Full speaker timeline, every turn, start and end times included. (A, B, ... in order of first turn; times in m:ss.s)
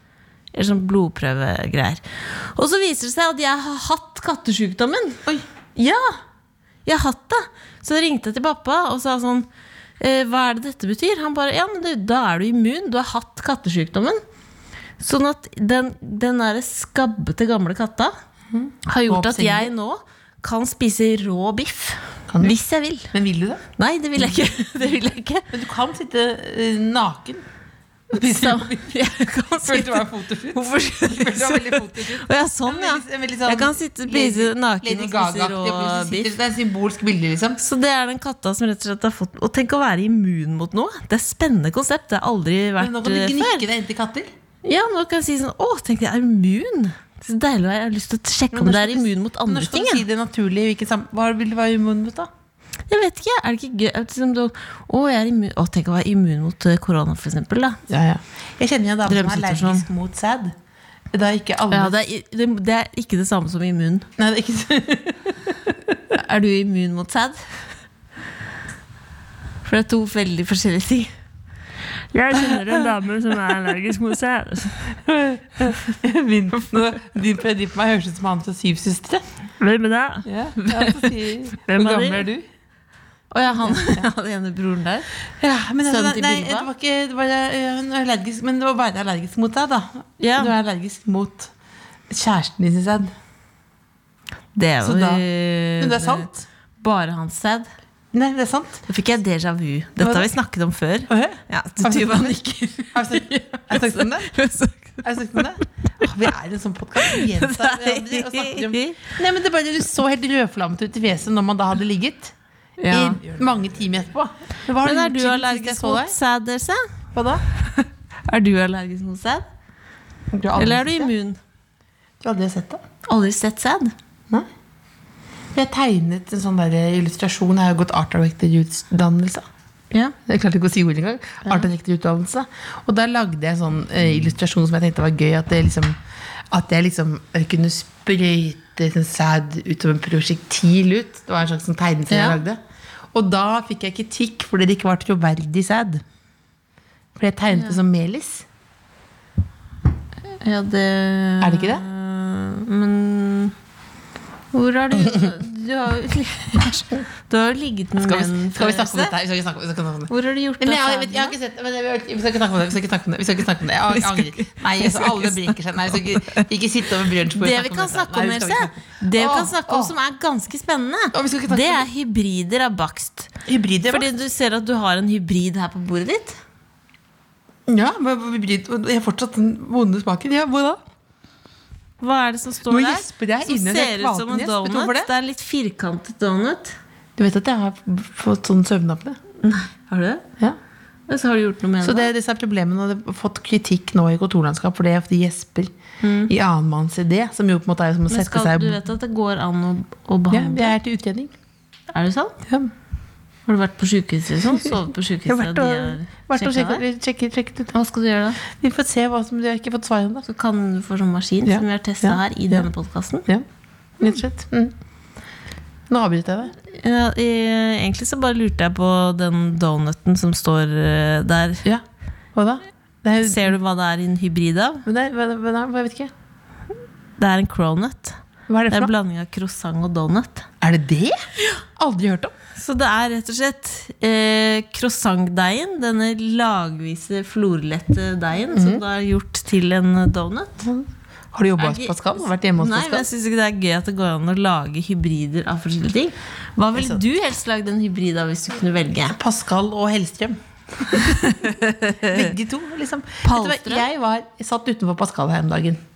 0:00.5-0:05.2 A
0:05.8-0:06.2 A
0:06.8-0:09.5 A
0:10.0-0:14.2 A
0:15.0-0:18.1 A
0:18.5-0:19.7 B
0:18.8-0:23.1 A
0:22.3-0:22.6 B
0:23.1-0:23.6 B
0:23.8-0:25.4 A
0:25.5-0:27.4 B
0:28.1-0:29.0 B
0:28.1-0:36.3 A
0:29.6-0:37.6 B
0:37.6-0:43.6 A
0:42.8-0:44.3 B
0:44.6-0:50.0 A
0:48.5-0:52.3 B
0:52.9-0:57.8 A
0:57.9-1:00.5 B
0:59.1-0:59.8 A
1:01.1-1:01.9 B
1:01.7-1:04.1 A
1:04.2-1:05.9 B
1:06.1-1:07.4 A
1:09.6-1:11.1 A
1:12.1-1:14.9 A
1:12.3-1:12.8 B
1:15.0-1:19.2 B
1:19.6-1:22.3 A
1:20.2-1:22.4 B
1:23.3-1:25.1 A
1:23.6-1:24.0 B
1:25.4-1:31.5 B
1:25.9-1:26.7 A
1:30.2-1:30.5 A
1:32.1-1:33.1 B
1:34.5-1:36.3 A
1:34.8-1:35.2 B
1:35.8-1:36.4 B
1:36.8-1:37.7 A
1:38.1-1:38.8 B
1:38.8-1:45.5 A
1:40.0-1:40.3 B
1:41.1-1:42.4 B
1:42.9-1:44.3 B
1:45.0-1:52.3 B
1:47.0-1:49.0 A
1:52.8-1:53.2 A
1:52.9-1:56.1 B
1:54.8-1:56.8 A
1:57.1-1:57.4 B
1:58.3-1:59.4 A
2:00.3-2:01.1 B
2:00.6-2:01.4 A
2:02.2-2:02.8 B
2:03.0-2:03.9 A
2:05.5-2:09.4 B
2:10.2-2:16.0 B
2:16.5-2:22.6 B
2:22.1-2:22.4 A
2:23.1-2:26.0 B
2:27.1-2:28.4 B
2:27.5-2:27.8 A
2:30.4-2:33.5 A
2:31.4-2:31.8 B
2:34.5-2:39.1 A
2:38.0-2:49.9 B
2:40.1-2:41.4 A
2:44.1-2:45.1 A
2:47.3-2:53.3 A
2:51.1-2:51.8 B
2:53.4-2:54.1 B
2:53.9-2:56.4 A
2:57.7-3:00.8 B
3:02.0-3:06.8 A
3:02.7-3:05.1 B
3:07.2-3:09.2 B
3:09.4-3:10.2 A
3:11.1-3:12.1 A
3:11.8-3:15.7 B
3:16.0-3:16.3 A
3:16.3-3:18.8 B
3:18.1-3:20.7 A
3:20.3-3:21.3 B
3:21.9-3:22.4 A
3:23.4-3:26.8 A
3:25.2-3:27.7 B
3:27.7-3:28.4 A
3:28.5-3:30.2 B
3:30.2-3:33.2 A
3:31.4-3:32.7 B
3:34.0-3:34.7 B
3:35.9-3:36.5 B
3:36.7-3:41.6 A
3:41.6-3:43.6 B
3:43.2-3:44.8 A
3:44.8-3:46.1 B
3:47.2-3:48.2 A
3:48.5-3:48.9 B
3:48.7-3:50.5 A
3:50.6-3:51.2 B
3:51.7-3:52.3 B
3:52.5-4:00.6 A
3:58.5-3:58.8 B
4:00.6-4:03.1 B
4:01.6-4:02.0 A
4:02.6-4:09.2 A
4:06.7-4:07.0 B
4:09.1-4:15.8 B
4:10.9-4:12.3 A
4:13.2-4:13.8 A